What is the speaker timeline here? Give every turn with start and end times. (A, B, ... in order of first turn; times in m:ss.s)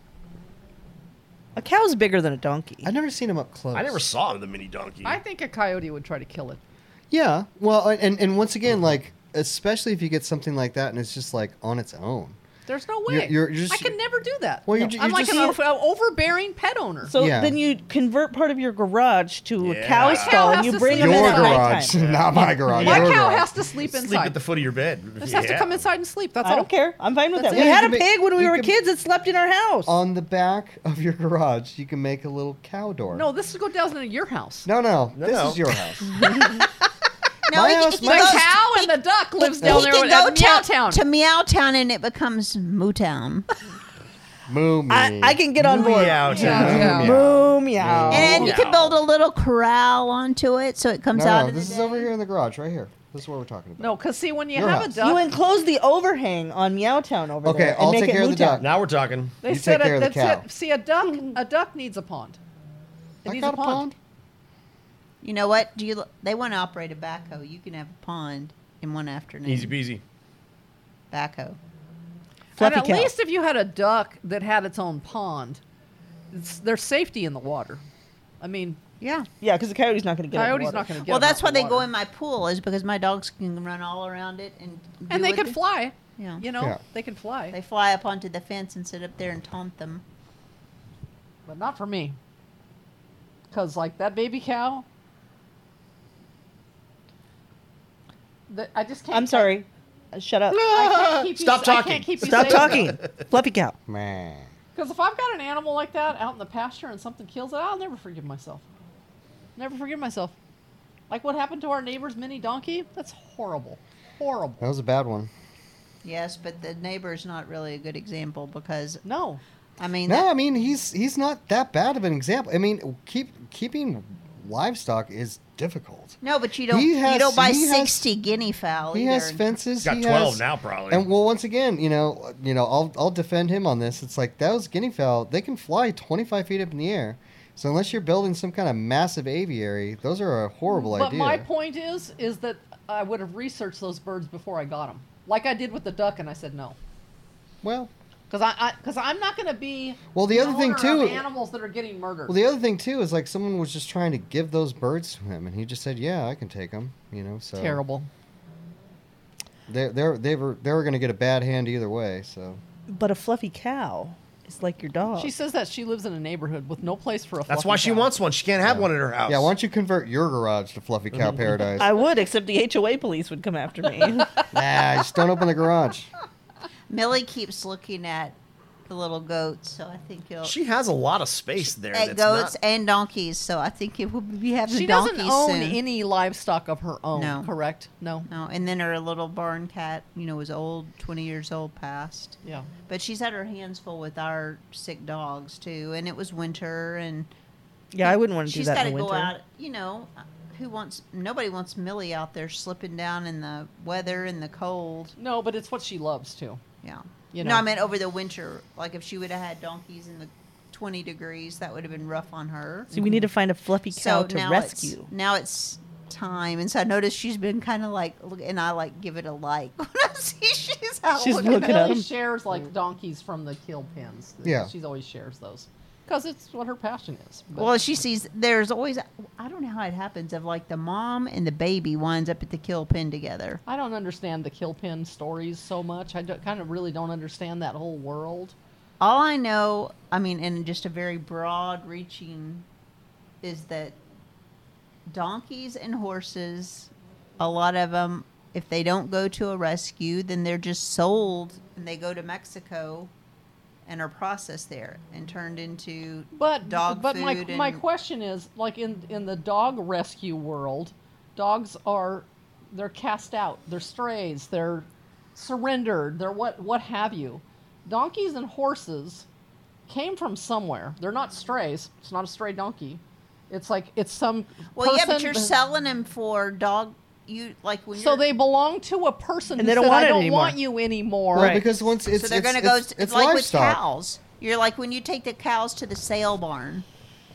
0:01.6-0:02.9 A
0:02.8-0:04.1 B
0:03.7-0:05.2 C
0:05.0-0:06.6 D
0:07.1-0:12.4 B
0:12.7-0:17.1 D
0:13.1-0:13.9 B
0:14.7-0:15.6 B
0:17.1-0:23.0 A
0:17.2-0:17.6 B
0:19.6-0:20.7 C
0:20.0-0:21.8 D
0:20.9-0:23.5 B
0:21.9-0:23.2 C
0:22.7-0:24.4 D
0:23.8-0:25.8 C
0:25.2-0:26.7 D
0:26.4-0:30.0 A
0:27.4-0:27.7 D
0:27.4-0:28.7 B
0:29.9-0:33.3 B
0:33.1-0:34.7 D
0:34.7-0:36.1 B
0:35.2-0:35.6 C
0:36.4-0:36.6 D
0:37.5-0:43.5 E
0:37.5-0:38.5 B
0:38.0-0:41.0 D
0:39.6-0:39.9 B
0:44.5-0:48.5 B
0:44.9-0:48.6 A
0:45.6-0:47.1 C
0:46.3-0:47.1 D
0:47.8-0:49.0 C
0:48.1-0:52.1 E
0:51.1-0:54.0 B
0:53.8-0:55.3 D
0:54.5-0:55.0 B
0:55.0-0:58.6 A
0:57.4-0:58.7 B
0:58.6-0:59.4 C
0:59.4-1:02.4 D
0:59.4-1:00.5 B
1:03.2-1:04.0 B
1:03.2-1:03.9 D
1:05.2-1:09.8 E
1:09.4-1:10.0 C
1:11.1-1:11.6 E
1:12.6-1:13.1 A
1:12.6-1:15.6 D
1:16.3-1:17.8 D
1:18.4-1:18.8 D
1:19.0-1:19.3 E
1:19.4-1:20.9 A
1:20.3-1:21.9 D
1:21.0-1:25.6 E
1:25.1-1:27.6 D
1:26.2-1:26.4 E
1:27.5-1:30.0 E
1:31.5-1:32.2 D
1:33.5-1:34.9 D
1:38.5-1:39.6 D
1:39.1-1:40.6 A
1:40.5-1:43.3 C
1:40.7-1:42.9 D
1:42.2-1:43.8 A
1:43.9-1:44.5 B
1:44.8-1:48.6 D
1:49.6-1:50.4 D
1:51.1-1:54.6 D
1:54.6-1:55.3 B
1:56.0-1:59.0 E
1:59.0-1:59.4 D
1:59.8-2:00.3 E
2:00.1-2:08.1 B
2:06.2-2:09.5 E
2:08.9-2:21.5 B
2:09.8-2:11.1 C
2:20.7-2:26.8 D
2:27.6-2:27.9 B
2:28.3-2:32.4 D
2:30.1-2:31.2 B
2:32.3-2:37.8 B
2:37.6-2:38.1 D
2:39.7-2:42.6 B
2:42.9-2:45.3 A
2:45.2-2:48.1 D
2:47.5-2:49.5 C
2:48.6-2:52.0 B
2:51.1-2:51.4 C
2:51.8-2:54.4 A
2:54.5-2:56.1 B
2:56.9-3:00.6 E
3:00.4-3:02.5 C
3:01.6-3:05.8 E
3:04.7-3:08.3 D
3:07.2-3:07.5 E
3:08.3-3:17.3 E
3:12.4-3:12.7 D
3:17.9-3:19.3 A
3:18.0-3:25.2 E
3:25.2-3:26.6 D
3:26.8-3:32.9 E
3:27.3-3:27.6 D
3:32.9-3:35.1 A
3:33.9-3:41.7 E
3:41.2-3:47.8 D
3:41.2-3:42.1 A
3:44.4-3:44.7 B
3:47.6-3:53.6 E
3:53.7-3:58.6 D
3:59.0-4:02.7 E
4:03.4-4:04.0 E
4:05.1-4:13.1 E
4:13.9-4:17.8 E
4:16.3-4:29.3 D
4:29.9-4:35.6 D
4:34.8-4:38.2 E
4:38.0-4:41.6 D
4:39.6-4:40.6 A
4:41.3-4:41.7 A
4:41.4-4:43.8 B
4:42.1-4:46.9 E